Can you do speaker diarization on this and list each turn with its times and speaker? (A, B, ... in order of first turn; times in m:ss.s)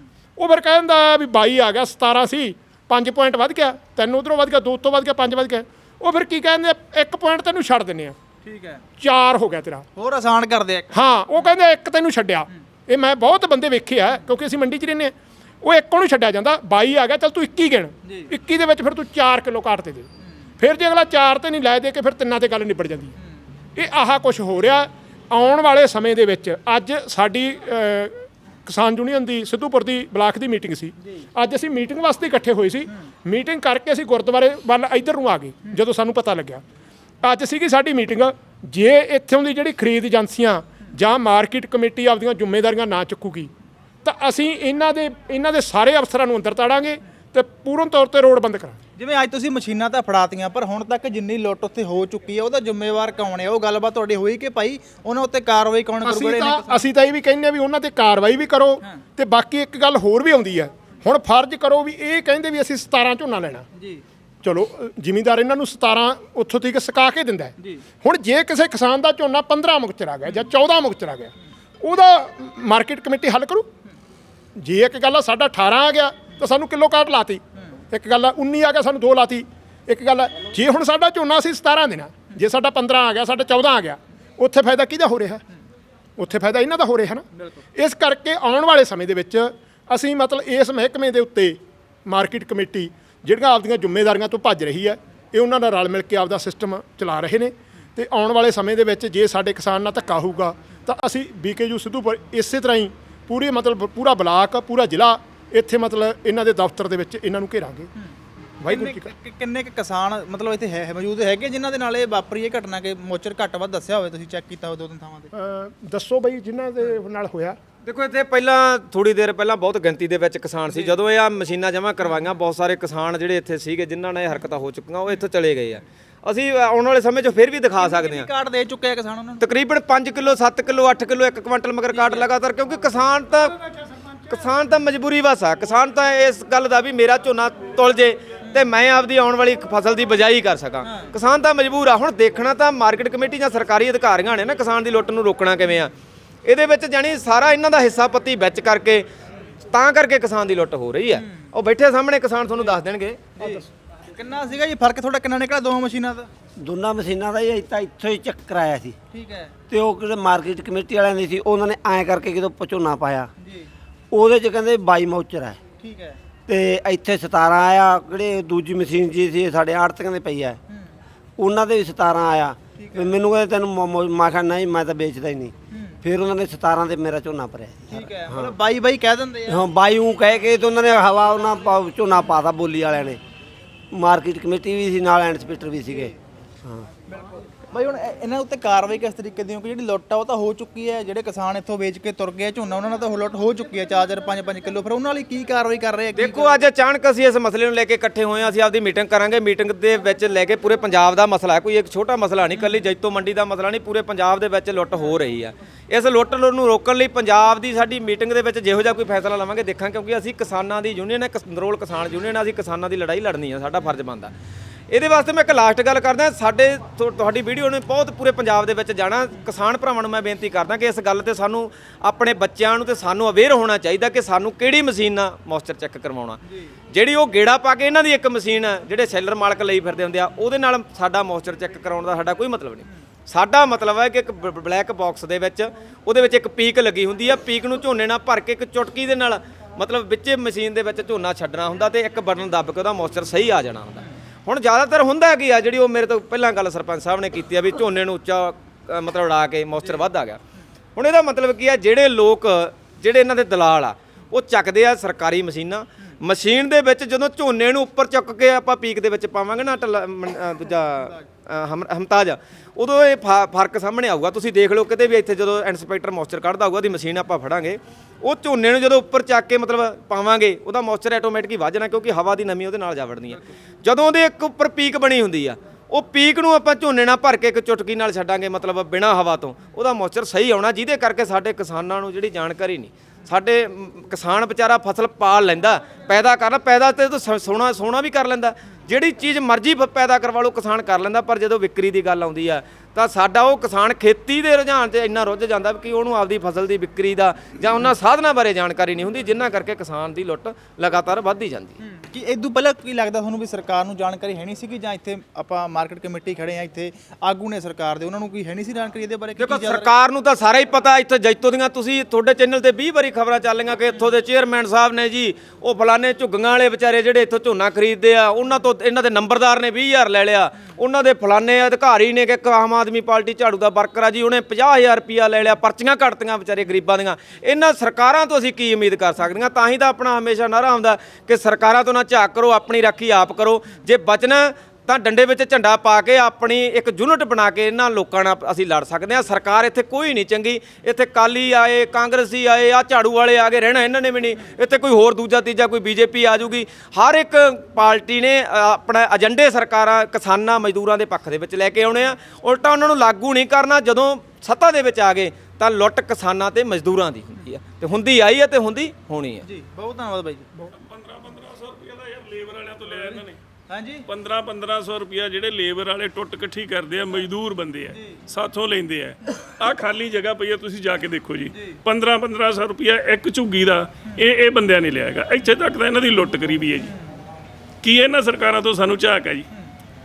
0:00.4-0:08.2 A
0:08.4-0:08.8 B
0:09.0-0:09.9 A
0:10.0-0:10.9 B
0:10.9-0:20.1 A
0:20.6-0:23.1 A
0:23.8-0:36.6 A
0:37.2-0:43.5 A
0:44.0-0:48.8 A
0:49.0-0:56.8 B
0:56.0-1:03.7 A
1:03.8-1:04.0 B
1:04.4-1:13.7 A
1:14.6-1:25.4 A
1:26.2-1:47.9 A
1:48.6-1:49.1 A
1:48.7-1:55.3 B
1:55.3-1:57.6 A
1:57.8-2:08.3 C
2:00.7-2:00.9 B
2:07.8-2:09.4 B
2:09.4-2:13.6 C
2:14.3-2:25.9 C
2:26.4-2:29.0 C
2:29.7-2:33.4 C
2:33.4-2:36.3 B
2:36.6-2:39.0 D
2:39.1-2:39.5 B
2:39.7-2:43.3 D
2:43.4-2:43.7 B
2:44.1-2:45.6 D
2:45.8-2:46.2 B
2:46.5-2:50.6 D
2:50.7-2:51.0 B
2:51.4-2:58.5 D
2:52.8-2:53.1 B
2:55.7-2:56.0 B
2:57.9-2:59.6 B
2:59.5-3:03.2 D
3:03.9-3:06.9 D
3:07.1-3:16.5 B
3:16.2-3:34.3 C
3:34.9-3:46.4 C
3:46.9-4:10.4 C
4:11.0-5:01.8 C
5:01.8-5:09.9 B
5:09.4-5:59.5 C
5:59.4-6:00.5 B
6:00.8-6:03.4 E
6:03.7-6:04.0 B
6:04.1-6:16.9 E
6:17.8-6:19.5 E